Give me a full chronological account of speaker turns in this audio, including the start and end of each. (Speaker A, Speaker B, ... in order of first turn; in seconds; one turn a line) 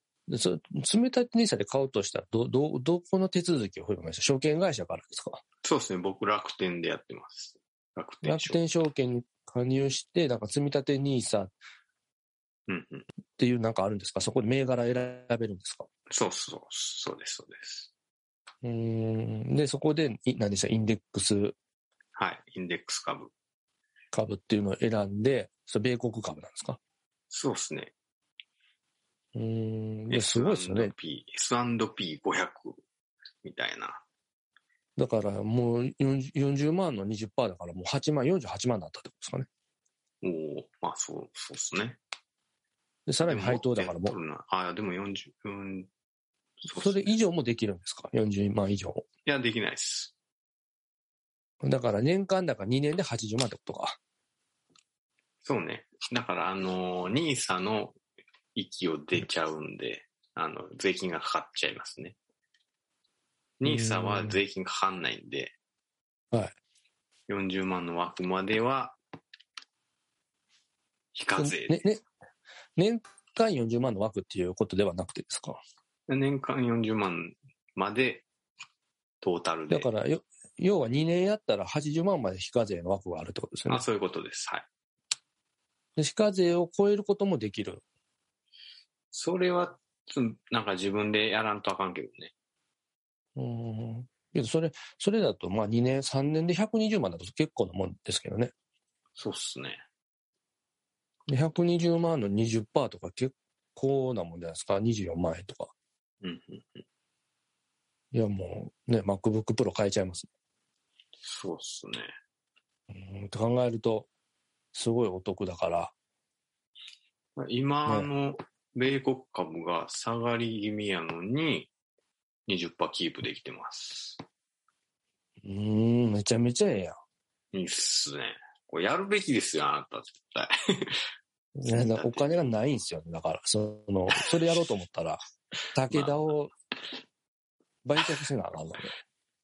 Speaker A: 0.3-5.4
Speaker B: 5.6-8.6
Speaker A: 8.2-11.5
Speaker B: 12.7-13.1
Speaker A: 13.4-15.9
Speaker B: 16.1-17.9
Speaker A: 18.6-21.6
Speaker B: 22.1-23.3
Speaker A: 24.1-26.8
Speaker B: 27.3-27.9
Speaker A: 29.3-30.9
Speaker B: 30.1-32.8
Speaker B: 33.4-34.0
Speaker A: 35.0-39.5
Speaker B: 40.2-42.0
Speaker A: 43.1-44.1
Speaker B: 43.2-45.9
Speaker B: 46.6-47.1
Speaker A: 46.7-49.0
Speaker B: 49.2-50.1
Speaker A: 51.6-54.0
Speaker B: 55.4-58.0
Speaker B: 58.5-62.1
Speaker B: 63.6-65.5
Speaker A: 63.6-64.4
Speaker B: 67.3-69.0
Speaker B: 71.1-71.8
Speaker A: 71.4-72.0
Speaker A: 72.8-75.6
Speaker B: 76.1-78.2
Speaker B: 79.2-79.9
Speaker A: 79.7-83.8
Speaker B: 83.7-84.7
Speaker A: 86.0-87.8
Speaker B: 89.1-92.3
Speaker A: 93.3-98.5
Speaker B: 99.2-99.8
Speaker A: 101.3-105.7
Speaker B: 106.2-106.8
Speaker A: 108.1-110.3
Speaker B: 111.2-112.1
Speaker A: 112.9-114.1
Speaker A: 114.7-115.9
Speaker B: 117.4-121.7
Speaker B: 122.5-124.2
Speaker A: 125.4-127.0
Speaker B: 127.5-131.0
Speaker A: 131.6-135.2
Speaker B: 131.7-132.4
Speaker A: 135.7-136.5
Speaker B: 135.9-136.1
Speaker A: 137.8-138.9